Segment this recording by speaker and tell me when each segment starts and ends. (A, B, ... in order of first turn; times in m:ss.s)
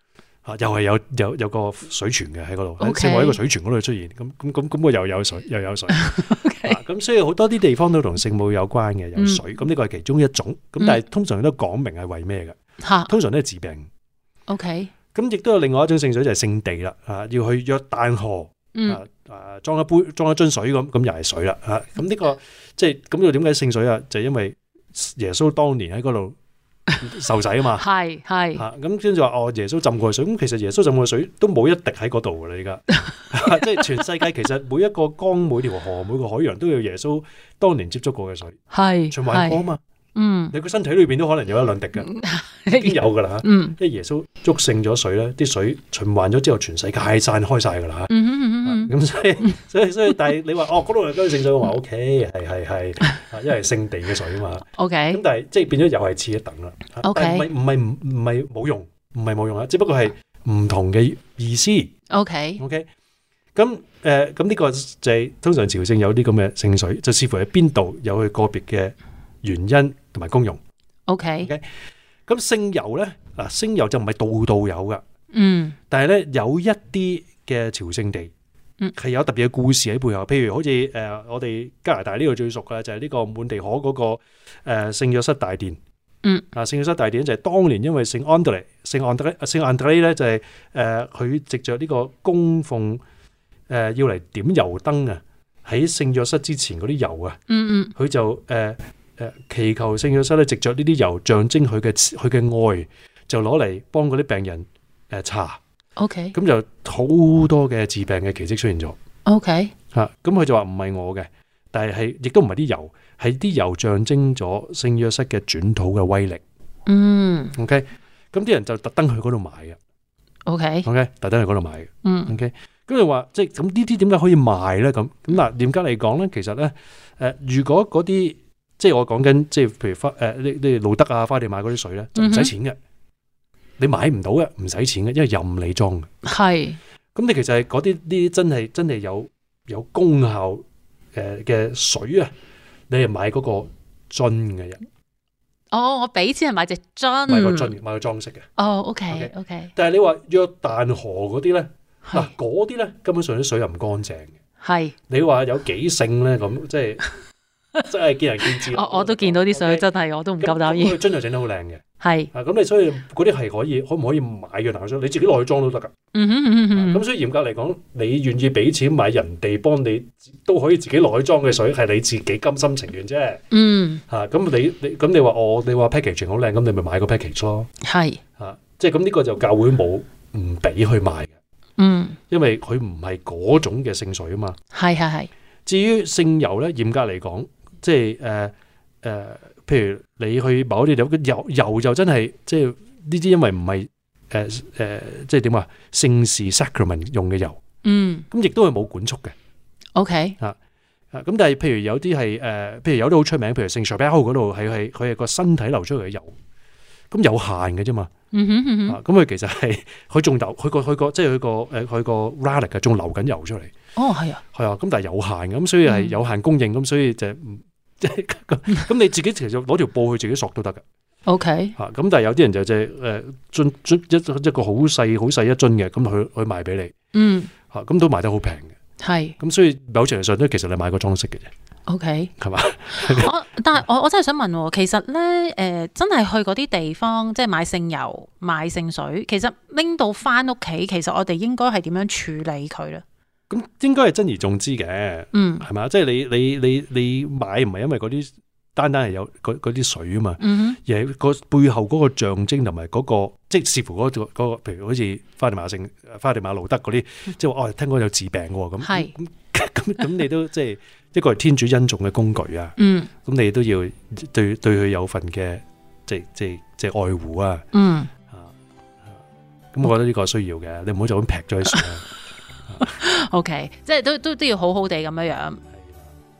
0:00.4-0:12.5 A
0:02.8-0:03.4 B
0:05.9-0:06.8 B
0:09.2-0:09.4 B
0:12.8-0:13.1 B
0:13.1-0:13.9 A
0:14.5-0:14.9 B
0:15.1-0:26.4 A
0:18.7-0:19.0 B
0:27.0-0:27.8 A
0:27.8-0:28.6 B
0:28.6-0:39.8 A
0:38.7-0:39.6 B
0:40.1-0:40.5 B
0:40.5-0:42.1 A
0:42.0-0:43.8 B
0:42.7-0:48.1 A
0:48.1-0:48.9 B
0:48.6-1:01.9 A
0:54.8-0:55.2 B
0:57.0-0:57.5 B
1:02.1-1:02.6 B
1:02.6-1:02.9 A
1:03.5-1:10.6 A
1:11.1-1:11.5 B
1:12.3-1:15.0 A
1:15.3-1:15.8 B
1:15.9-1:18.3 A
1:18.9-1:25.8 A
1:26.5-1:33.0 A
1:33.7-1:37.4 A
1:37.5-1:37.9 B
1:38.0-1:45.6 A
1:46.0-1:46.4 B
1:46.3-1:49.0 A
1:49.2-1:49.7 B
1:49.9-1:56.4 A
1:56.8-1:57.6 B
1:57.5-1:59.8 A
2:00.4-2:00.9 B
2:00.8-2:12.8 A
2:02.0-2:02.3 B
2:12.1-2:12.5 B
2:13.8-2:16.1 A
2:16.2-2:16.8 B
2:17.1-2:20.6 A
2:21.1-2:22.3 A
2:22.9-2:24.8 A
2:25.7-2:27.7 B
2:27.3-2:28.5 A
2:28.6-2:29.7 B
2:29.1-2:34.3 A
2:32.0-2:32.3 B
2:34.6-2:34.9 B
2:35.1-2:37.1 A
2:37.8-2:39.9 A
2:38.5-2:41.0 B
2:40.4-2:45.9 A
2:42.0-2:42.3 B
2:46.1-2:47.0 B
2:46.7-2:53.4 A
2:53.5-2:54.0 B
2:54.1-2:57.7 A
2:57.8-2:58.2 B
2:58.4-3:01.3 A
3:01.8-3:02.2 B
3:02.3-3:04.6 A
3:04.7-3:05.3 B
3:05.6-3:17.6 A
3:17.8-3:18.2 B
3:18.3-3:19.3 A
3:20.0-3:20.4 B
3:21.1-3:26.3 A
3:27.1-3:28.1 A
3:28.3-3:29.0 B
3:28.8-3:33.7 A
3:34.0-3:34.4 B
3:34.5-3:40.8 A
3:35.8-3:36.1 B
3:41.2-3:41.7 B
3:41.8-3:46.9 A
3:47.1-3:47.5 B
3:47.7-3:48.7 A
3:49.0-3:49.4 B
3:49.4-3:51.5 A
3:51.9-3:52.3 B
3:52.4-3:53.3 A
3:52.9-4:03.0 B
4:03.5-4:27.6 A
4:05.3-4:05.6 B
4:10.4-4:10.8 B
4:18.8-4:19.1 B
4:22.8-4:23.1 B
4:27.7-4:28.1 B
4:29.7-4:32.1 A
4:32.8-4:35.6 B